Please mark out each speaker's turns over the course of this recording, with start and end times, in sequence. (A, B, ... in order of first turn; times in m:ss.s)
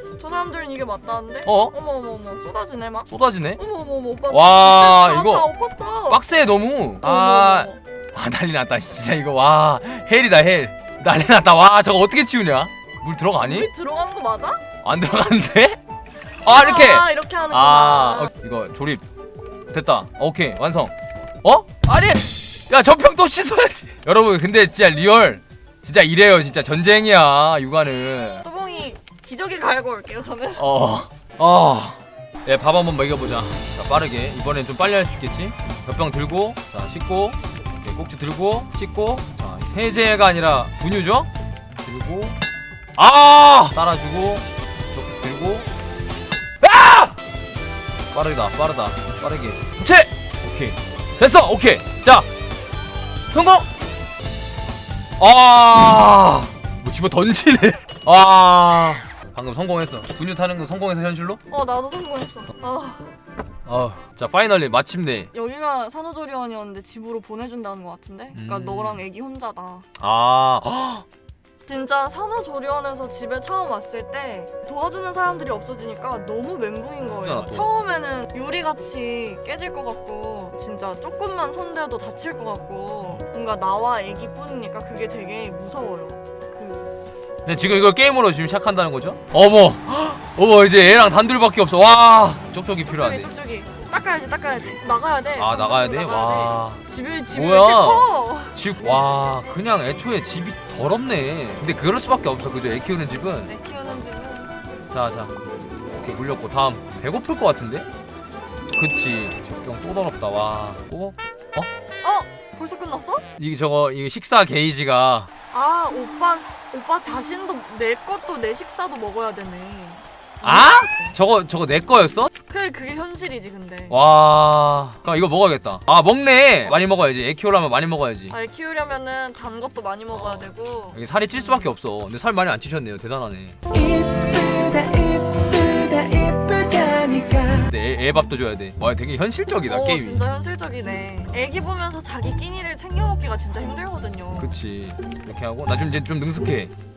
0:00.2-0:06.2 A
0:01.5-0:01.8 B
0:03.1-0:03.6 B
0:04.3-0:05.5 B
0:06.1-0:13.7 B
0:07.0-0:07.8 A
0:13.4-0:14.6 A
0:14.8-0:15.8 B
0:16.4-0:19.0 B
0:16.5-0:18.3 A
0:19.7-0:28.5 B
0:28.4-0:30.7 A
0:30.6-0:41.3 B
0:41.8-0:42.4 B
0:43.0-0:45.7 B
0:46.6-0:47.2 B
0:48.1-0:52.3 B
0:53.3-0:53.7 B
0:55.2-1:01.4 B
1:01.5-1:03.1 A
1:03.7-1:05.3 B
1:05.3-1:09.8 A
1:08.3-1:09.0 B
1:10.0-1:11.0 B
1:11.7-1:26.9 A
1:17.2-1:17.7 B
1:27.5-1:33.3 B
1:32.9-1:38.6 A
1:35.4-1:43.5 B
1:43.5-1:44.5 A
1:44.9-1:45.4 B
1:45.9-1:47.9 B
1:48.7-1:51.7 B
1:52.0-1:53.2 A
1:53.4-1:55.3 B
1:55.5-2:01.2 A
2:00.4-2:02.3 B
2:02.5-2:04.0 A
2:03.9-2:08.3 B
2:08.3-2:11.7 A
2:10.1-2:13.6 B
2:13.7-2:17.7 C
2:17.6-2:20.2 B
2:19.7-2:24.5 A
2:24.4-2:26.7 B